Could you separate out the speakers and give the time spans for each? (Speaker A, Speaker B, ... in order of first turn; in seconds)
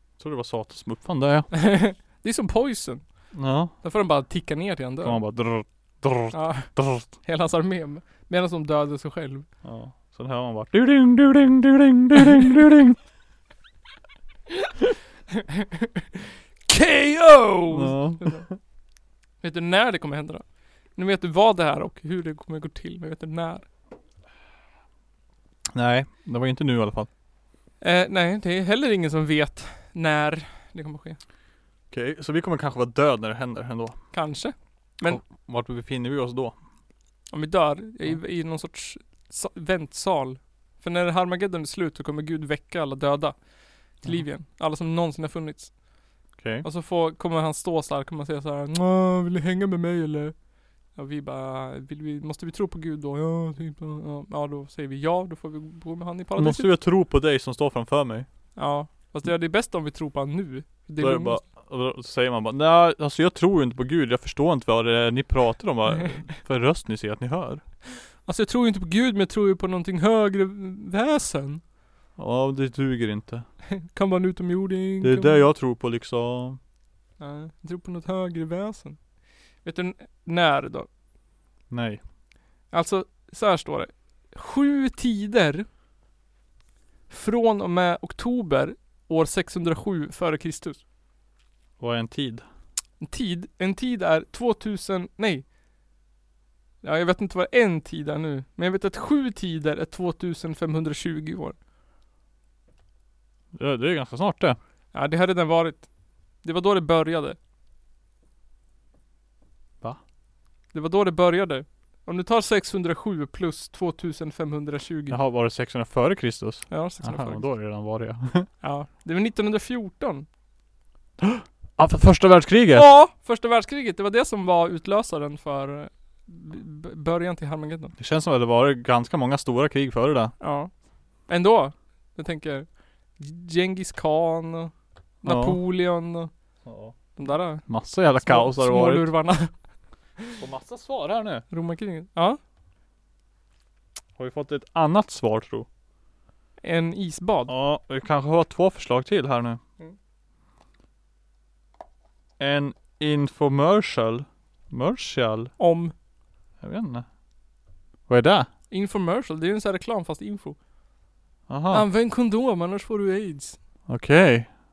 Speaker A: 0.2-1.5, 3.3-3.7, 5.0-7.1, 9.6-13.0, 17.7-18.6, 25.7-27.1, 31.9-34.0, 35.0-36.6, 46.4-46.6, 56.4-58.3, 61.0-67.6, 72.2-73.5, 75.0-76.6, 81.7-82.0, 91.8-92.4, 103.5-104.6, 115.1-118.5, 121.2-122.9, 128.0-130.3, 135.2-135.6, 136.6-136.9, 137.6-139.1, 140.4-141.4, 144.2-145.7, 147.5-149.6, 152.4-155.5, 156.6-157.1, 158.1-158.5, 161.5-161.9, 163.9-164.5
Speaker B: 1.5-3.0, 3.8-5.2, 6.3-9.4, 15.5-16.0, 16.7-18.4, 19.4-20.4, 20.9-23.6, 27.8-31.2, 34.1-35.2, 37.3-43.5, 44.0-45.8, 46.6-50.4, 50.9-56.7, 58.5-61.4, 68.2-71.6, 73.8-75.4, 77.2-79.0, 79.6-80.9, 82.7-85.7, 87.1-90.8, 93.0-95.5, 96.8-101.5, 104.9-105.9, 106.4-107.4, 110.7-115.2, 116.7-117.4, 118.6-120.3, 122.7-127.9, 130.4-130.7, 131.3-136.3, 137.2-139.5, 141.5-142.4, 146.6-147.5, 155.6-155.9, 158.7-160.6, 161.7-163.6